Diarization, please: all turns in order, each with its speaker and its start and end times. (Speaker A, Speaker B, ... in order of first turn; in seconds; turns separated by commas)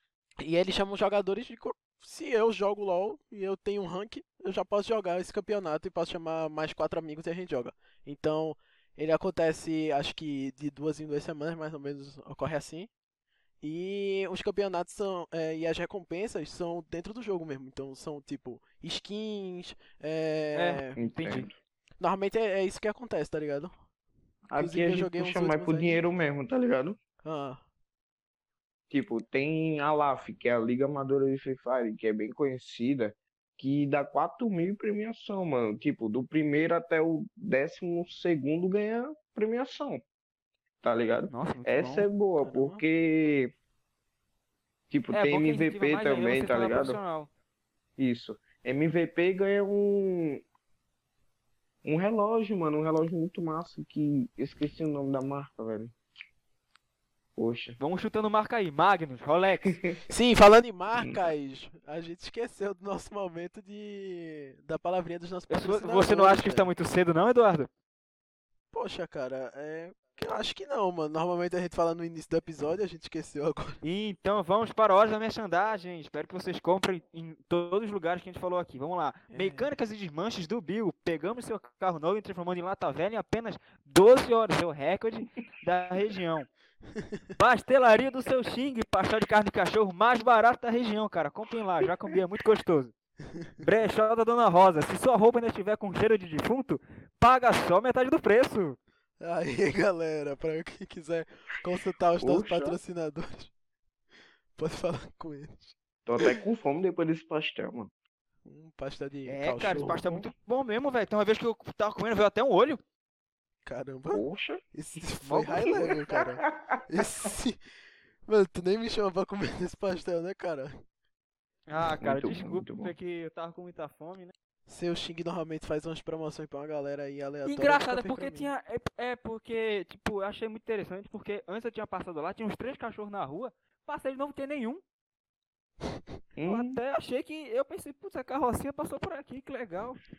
Speaker A: 0.4-12.9, Speaker A: 13.6-21.0, Speaker B: 20.5-21.5, Speaker C: 21.0-21.5, Speaker A: 22.0-23.7, Speaker C: 24.5-27.0, Speaker A: 24.5-26.0, Speaker A: 27.2-27.6, Speaker C: 28.9-40.0, Speaker C: 40.8-43.5, Speaker B: 41.3-42.1, Speaker A: 42.4-42.8, Speaker C: 44.9-47.0, Speaker B: 45.1-47.3, Speaker C: 48.0-50.4, Speaker C: 51.8-55.9, Speaker C: 57.4-57.8, Speaker B: 57.8-59.8, Speaker C: 59.6-60.0, Speaker A: 60.1-66.7, Speaker B: 65.5-67.7, Speaker A: 68.7-73.8, Speaker B: 73.8-86.5, Speaker A: 79.3-79.7, Speaker A: 87.0-87.2, Speaker B: 87.4-92.9, Speaker B: 93.6-98.8, Speaker A: 99.2-103.5, Speaker C: 102.2-102.8, Speaker A: 104.5-106.3, Speaker C: 106.0-107.9, Speaker A: 108.4-110.0, Speaker B: 109.2-112.8, Speaker C: 109.8-110.2, Speaker A: 113.6-117.6, Speaker C: 114.1-114.6, Speaker B: 115.2-115.8, Speaker C: 115.8-117.0, Speaker A: 118.2-120.8, Speaker B: 121.7-124.3, Speaker C: 122.0-122.9, Speaker A: 124.7-128.5, Speaker B: 127.4-134.8, Speaker C: 136.4-136.8, Speaker B: 136.5-140.0